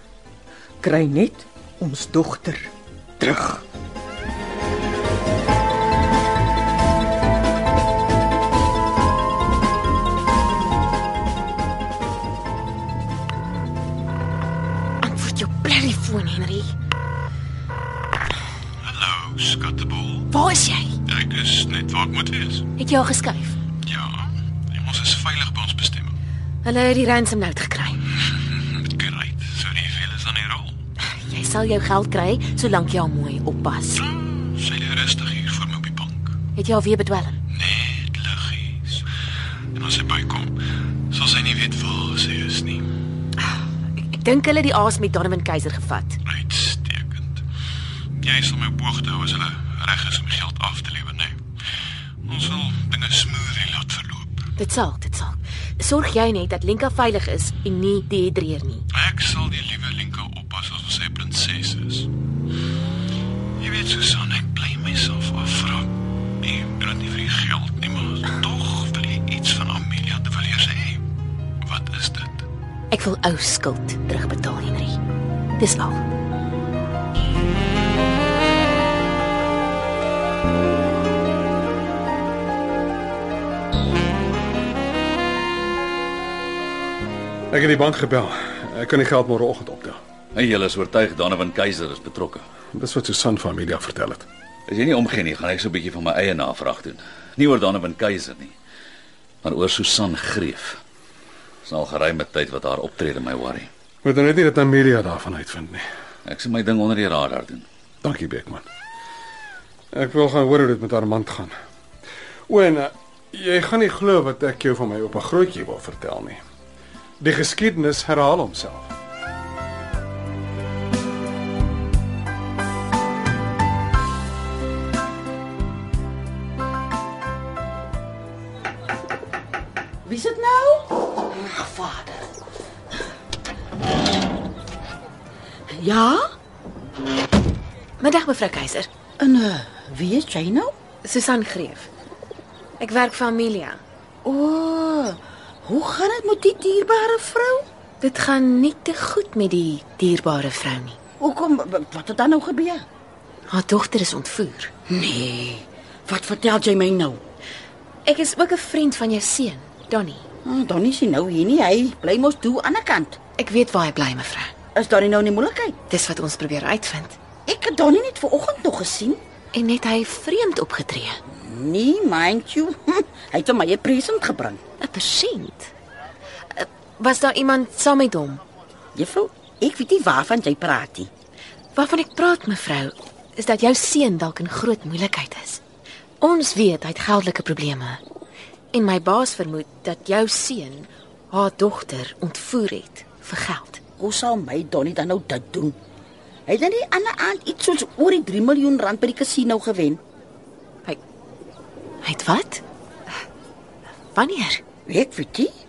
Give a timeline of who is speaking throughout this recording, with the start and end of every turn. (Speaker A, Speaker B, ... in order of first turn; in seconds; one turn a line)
Speaker A: 0.8-3.6
Speaker B: 15.0-16.7
Speaker C: 18.9-20.2
Speaker B: 20.3-20.9
Speaker C: 21.1-22.6
Speaker B: 22.8-23.6
Speaker C: 23.9-26.1
Speaker B: 26.6-28.0
Speaker C: 28.7-30.7
Speaker B: 31.3-34.0
Speaker C: 34.5-36.3
Speaker B: 36.5-37.4
Speaker C: 37.5-39.0
Speaker C: 39.7-42.9
Speaker B: 44.0-46.2
Speaker C: 46.2-47.4
Speaker C: 48.2-51.4
Speaker C: 52.3-54.4
Speaker B: 54.6-58.8
Speaker C: 58.9-62.1
Speaker C: 63.6-65.9
Speaker C: 66.4-71.0
Speaker C: 71.6-72.4
Speaker B: 72.9-75.0
Speaker B: 75.6-76.0
Speaker D: 87.5-90.0
Speaker E: 90.3-92.4
Speaker D: 92.7-94.2
Speaker E: 94.7-98.5
Speaker E: 99.4-100.8
Speaker E: 101.6-103.7
Speaker D: 104.0-105.8
Speaker E: 106.2-107.6
Speaker D: 108.0-108.6
Speaker D: 109.9-111.5
Speaker D: 112.5-116.4
Speaker D: 117.2-118.9
Speaker F: 130.0-132.2
Speaker F: 135.7-136.2
Speaker B: 138.0-138.9
Speaker F: 139.2-140.7
Speaker B: 141.0-141.9
Speaker B: 142.8-143.8
Speaker F: 144.2-147.7
Speaker B: 148.0-151.0
Speaker F: 151.2-152.8
Speaker B: 153.5-154.7
Speaker F: 154.9-157.2
Speaker B: 158.0-160.2
Speaker F: 160.4-163.2
Speaker B: 163.4-164.5
Speaker F: 164.7-165.8
Speaker B: 165.9-167.2
Speaker F: 167.5-169.2
Speaker B: 169.5-171.2
Speaker F: 171.3-174.6
Speaker B: 174.8-175.7
Speaker B: 176.5-178.4
Speaker F: 178.9-181.1
Speaker B: 181.7-185.6
Speaker B: 186.2-188.0
Speaker B: 188.7-193.8
Speaker F: 194.0-195.8
Speaker F: 196.5-200.0
Speaker B: 202.0-202.6
Speaker B: 204.1-204.6
Speaker F: 204.9-205.5